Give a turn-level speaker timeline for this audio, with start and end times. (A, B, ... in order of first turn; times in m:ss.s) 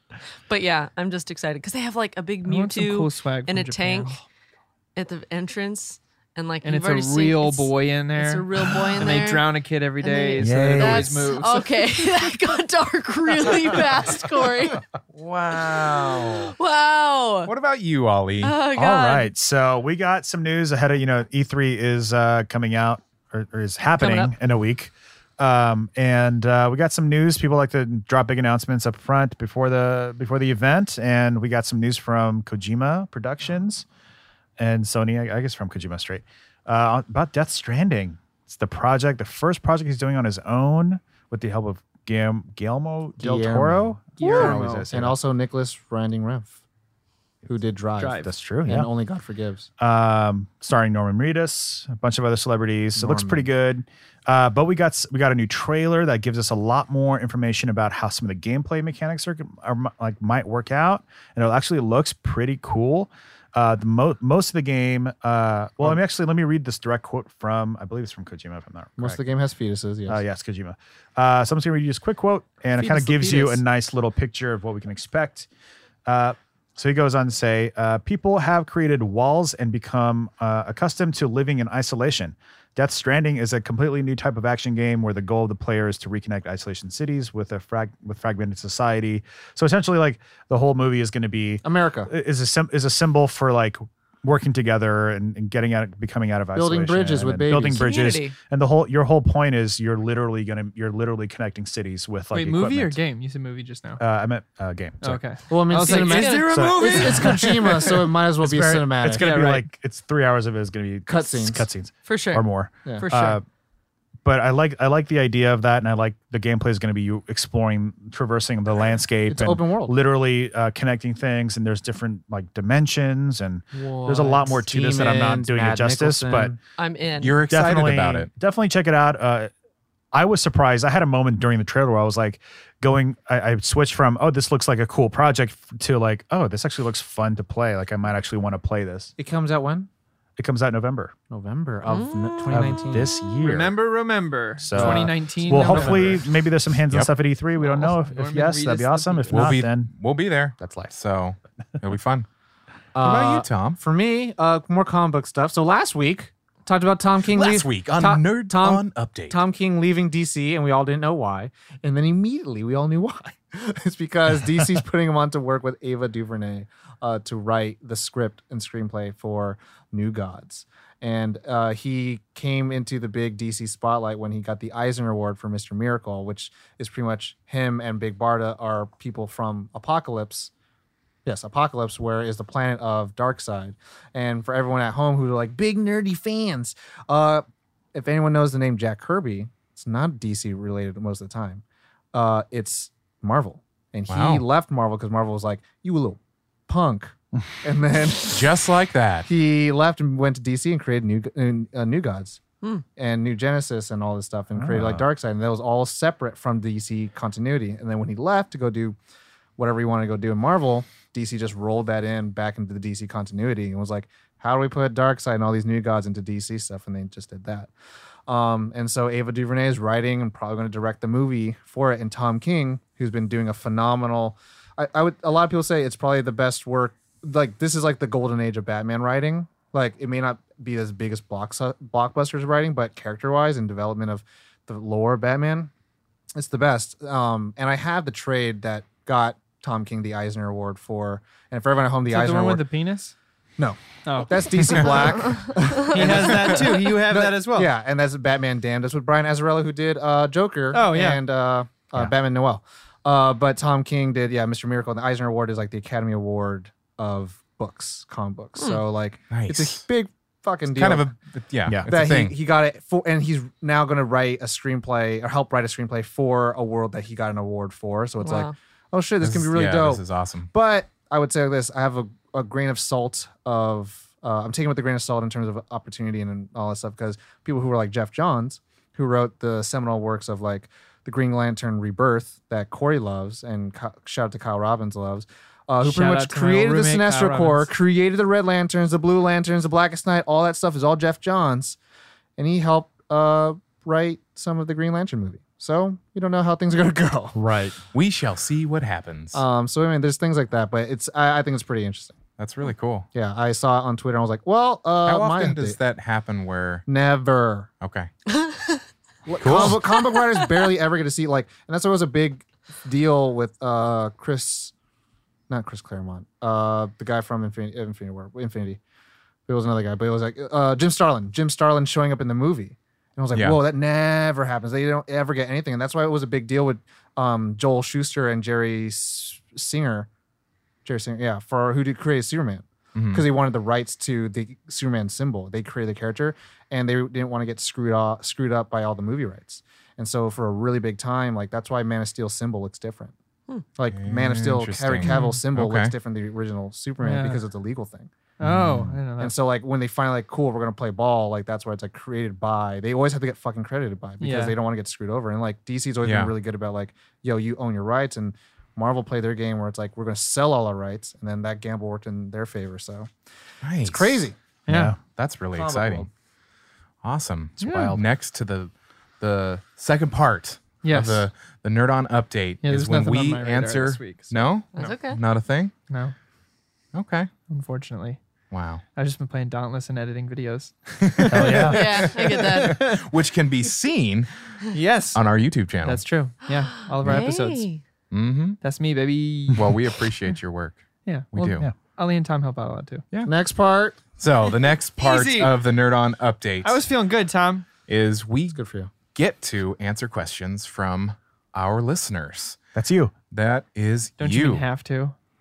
0:00.5-0:04.2 A
0:02.4-0:04.2 B
0:05.0-0:14.8 A
0:06.6-0:11.7 B
0:10.4-0:11.3 C
0:15.1-0:16.5 D
0:15.9-0:17.5 A
0:17.5-0:18.6 D
0:18.4-0:19.3 A
0:18.8-0:33.9 C
0:24.0-0:24.3 A
0:34.6-0:45.2 C
0:43.2-0:46.6 E
0:44.2-0:44.9 B
0:47.4-0:49.7 E
0:48.0-0:48.3 B
0:48.2-0:48.9 C
0:49.8-1:09.3 C
0:53.0-0:53.5 E
1:09.0-1:10.2 E
1:10.1-1:15.5 C
1:12.8-1:13.6 B
1:16.1-1:43.0 C
1:31.6-1:32.1 E
1:36.6-1:37.9 E
1:37.8-1:38.4 A
1:42.3-1:44.0 B
1:44.0-1:45.2 C
1:45.0-1:47.6 B
1:45.5-1:49.7 E
1:45.8-1:47.2 A
1:46.5-1:53.4 C
1:51.1-1:51.7 E
1:52.0-1:52.5 A
1:53.0-1:53.4 A
1:54.2-2:06.6 C
1:59.3-2:00.0 E
2:03.7-2:06.6 E
2:06.8-2:07.4 A
2:07.2-2:08.3 D
2:07.5-2:09.5 C
2:10.1-2:19.1 C
2:19.2-2:19.9 E
2:20.4-2:21.1 C
2:21.3-2:23.1 E
2:21.9-2:22.5 A
2:22.5-2:23.8 C
2:23.4-2:26.2 B
2:24.6-2:29.9 C
2:24.7-2:26.2 E
2:27.6-2:29.6 B
2:29.3-2:32.3 D
2:30.6-2:30.9 C
2:33.0-3:00.5 E
2:33.0-2:33.8 D
2:37.3-2:39.4 D
3:01.2-3:18.5 E
3:14.1-3:14.4 D
3:18.3-3:19.3 D
3:19.2-3:22.4 E
3:23.0-3:29.0 E
3:24.6-3:25.0 C
3:29.6-3:37.7 E
3:38.3-3:55.7 E
3:56.3-4:02.7 E
4:02.1-4:03.1 B
4:03.6-4:21.1 E
4:04.1-4:04.9 B
4:05.0-4:06.4 A
4:05.9-4:07.7 B
4:10.7-4:11.2 B
4:18.6-4:18.8 A
4:19.3-4:19.8 D
4:20.7-4:22.3 D
4:21.8-4:51.8 E
4:28.2-4:28.5 A
4:29.2-4:30.5 D
4:45.8-4:47.7 B
4:52.4-4:57.4 E
4:57.4-4:57.8 C
4:57.9-4:59.4 D
4:59.3-5:02.2 E
5:02.4-5:03.1 D
5:03.1-5:05.8 E
5:05.0-5:06.8 D
5:06.9-5:07.7 E
5:07.8-5:08.1 D
5:08.3-5:08.8 A
5:09.3-5:14.7 E
5:09.4-5:09.8 D
5:15.5-5:18.8 E
5:19.5-5:30.1 E
5:30.8-5:43.1 E
5:32.9-5:33.3 D
5:43.8-5:48.1 E
5:43.9-5:45.9 D
5:45.0-5:45.4 B
5:47.0-5:47.4 B
5:48.4-5:49.3 B
5:48.4-5:49.0 C
5:49.2-6:03.1 E
5:54.2-5:54.6 B
5:56.0-5:56.3 D
6:03.6-6:04.3 D
6:03.8-6:04.4 E
6:04.7-6:05.0 B
6:04.7-6:05.0 C
6:05.1-6:06.1 D
6:05.5-6:06.1 E
6:07.0-6:15.7 D
6:07.6-6:08.0 C
6:07.6-6:08.0 B
6:10.8-6:11.3 B
6:12.6-6:14.9 B
6:14.8-6:15.2 A
6:15.9-6:16.1 B
6:16.9-6:17.3 D
6:17.5-6:18.2 B
6:18.5-6:18.8 D
6:18.9-6:23.1 B
6:21.1-6:24.3 D
6:21.3-6:21.8 C
6:21.7-6:22.8 A
6:24.7-6:25.2 B
6:25.1-6:26.0 D
6:25.8-6:27.7 B
6:26.8-6:27.8 A
6:28.1-6:28.6 D
6:28.6-6:29.7 B
6:29.5-6:31.7 D
6:31.1-6:33.0 B
6:31.4-6:31.7 C
6:33.2-6:34.0 E
6:34.2-6:36.8 D
6:35.0-6:35.6 B
6:36.6-6:37.7 B
6:37.9-6:38.6 D
6:38.5-6:38.9 E
6:39.1-6:42.6 D
6:42.8-6:43.1 C
6:43.3-6:44.6 D
6:44.2-6:45.2 B